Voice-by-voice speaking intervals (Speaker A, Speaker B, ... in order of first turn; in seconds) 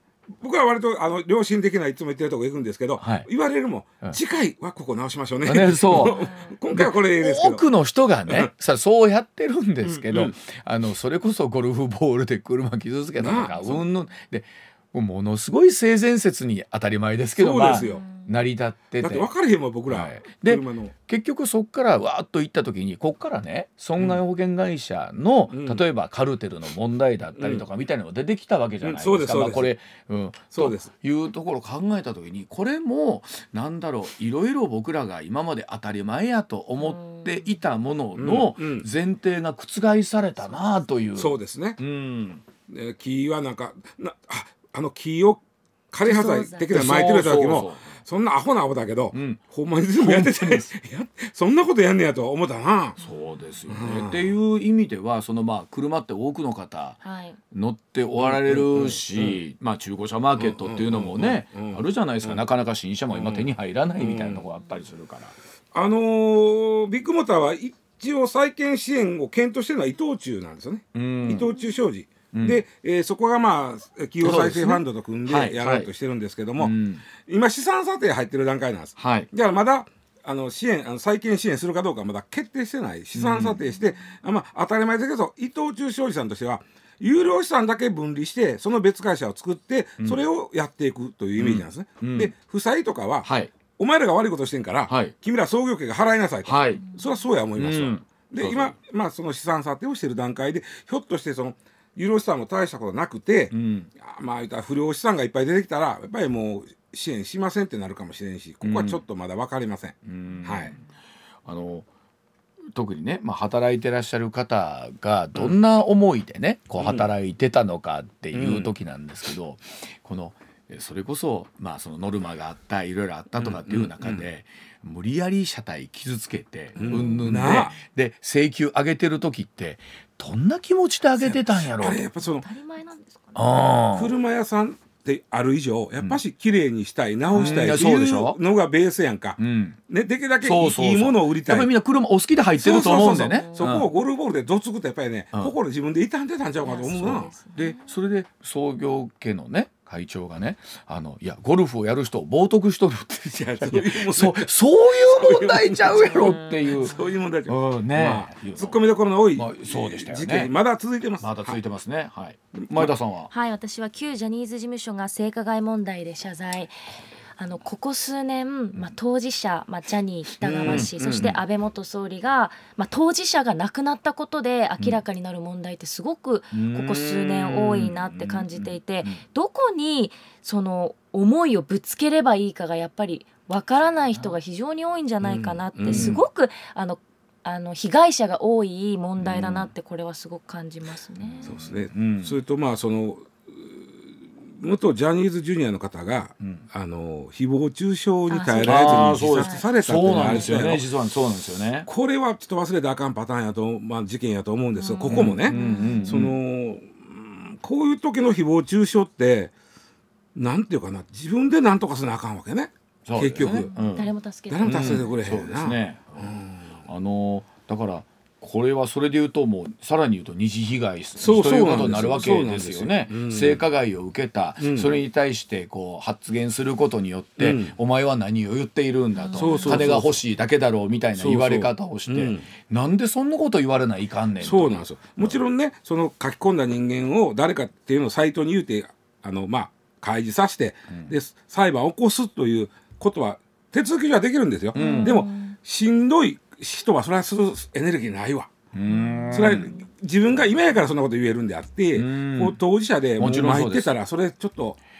Speaker A: 0.4-7.6, 9.8-10.3, 13.2-13.8, 17.4-18.1, 19.0-20.9, 25.5-25.9, 27.4-27.6, 28.8-29.7, 30.5-30.9, 38.1-38.9, 41.1-41.8, 42.7-53.0, 53.7-54.3, 58.2-59.4, 60.4-62.4, 63.1-64.5, 65.7-110.8, 116.8-117.1, 118.3-118.7, 123.4-124.2, 126.8-127.8, 131.2-132.4, 133.9-141.7, 142.6-147.3, 153.4-161.6, 162.5-162.9, 170.4-171.3, 185.2-186.2, 191.4-193.8, 194.5-200.9, 201.8-209.5, 210.3-213.7, 214.5-216.8, 221.2-223.6, 224.6-225.0, 227.4-227.8, 229.4-230.2, 231.2-232.5, 234.4-248.5, 249.3-254.8
Speaker B: 3.0-3.3, 5.5-6.2, 6.7-19.3, 19.9-42.4, 46.7-47.9, 49.1-49.4, 49.9-50.7, 53.0-57.0, 57.5-65.3, 70.9-71.5, 72.3-72.6, 74.2-75.9, 76.6-77.0, 79.0-79.3, 83.1-83.6, 91.4-92.3, 93.2-93.5, 94.9-95.1, 96.4-96.8, 97.6-98.8, 103.5-103.9, 108.6-109.0, 110.0-110.8, 111.4-111.9, 112.7-132.0, 133.3-134.1, 137.3-138.4, 139.4-139.8, 140.4-143.8, 147.0-156.9, 157.5-158.8, 159.3-160.5, 161.2-163.3, 170.6-171.4, 176.5-179.2, 185.9-186.2, 189.2-189.6, 191.2-192.4, 198.6-201.9, 205.1-206.3, 213.1-214.1, 214.6-235.4, 244.8-245.2, 248.7-249.7, 251.9-252.6, 253.2-253.9
Speaker C: 6.0-6.5, 17.8-18.3, 36.8-37.5, 46.0-46.8, 57.0-57.4, 126.8-127.3, 132.2-133.4, 143.2-144.0, 146.6-147.8, 155.8-157.1, 163.3-166.8, 167.4-191.5, 198.3-200.6, 204.8-206.2, 213.4-215.1, 229.1-229.9, 244.7-245.6, 248.8-249.8